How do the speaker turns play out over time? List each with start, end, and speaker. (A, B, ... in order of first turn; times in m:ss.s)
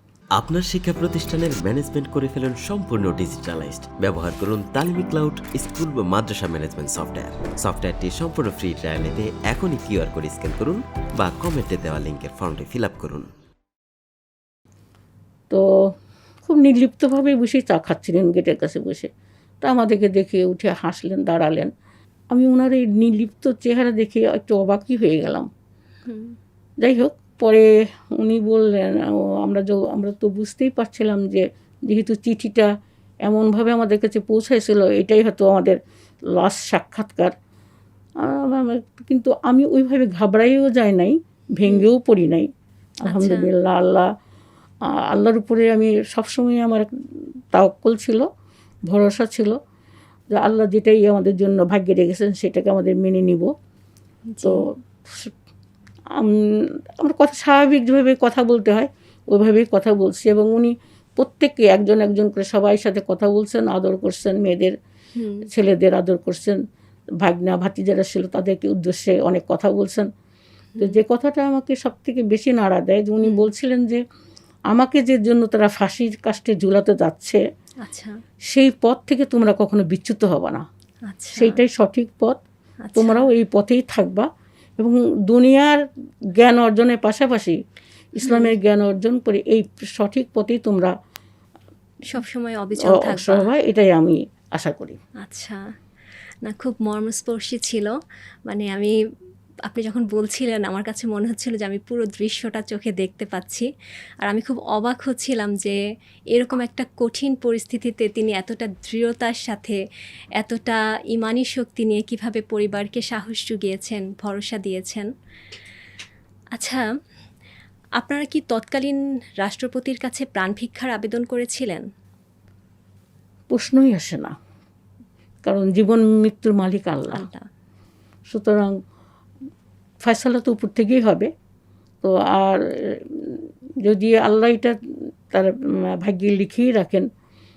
0:00.4-0:13.3 A
0:16.5-0:19.1 B
0:19.6-0:21.7 B
0:22.3-0:25.5 B
0:26.1-0:26.4 C
0:26.8-0:32.7 B
0:33.2-0:35.8 B
0:36.3-0:37.3 B
0:38.2-0:42.5 B
0:43.0-0:44.1 B
0:43.1-0:43.4 C
0:45.1-0:46.9 B
0:47.5-0:48.3 B
0:48.9-0:49.6 B
0:50.3-0:53.5 B
0:54.3-0:54.6 C
0:54.4-0:55.3 B
0:57.0-1:04.7 B
1:05.2-1:05.5 C
1:05.5-1:06.6 B
1:07.2-1:10.1 B
1:10.8-1:14.0 B
1:14.7-1:17.4 B
1:17.8-1:18.1 C
1:18.5-1:20.6 B
1:21.1-1:21.6 C
1:21.4-1:22.4 B
1:22.8-1:23.3 C
1:23.0-1:24.3 B
1:24.8-1:25.8 B
1:26.4-1:27.6 B
1:28.2-1:30.9 B
1:28.2-1:28.6 C
1:32.1-1:33.5 C
1:32.9-1:35.0 B
1:35.2-1:35.6 C
1:36.5-1:37.9 C
1:38.5-1:39.0 C
1:39.7-1:43.7 C
1:44.2-1:45.8 C
1:46.3-1:49.8 C
1:50.4-1:55.1 C
1:56.6-1:56.8 C
1:58.0-2:01.8 C
2:03.5-2:04.4 B
2:05.4-2:07.3 B
2:07.1-2:07.4 C
2:08.3-2:08.7 B
2:10.0-2:11.3 B
2:12.0-2:14.8 B
2:15.3-2:17.1 B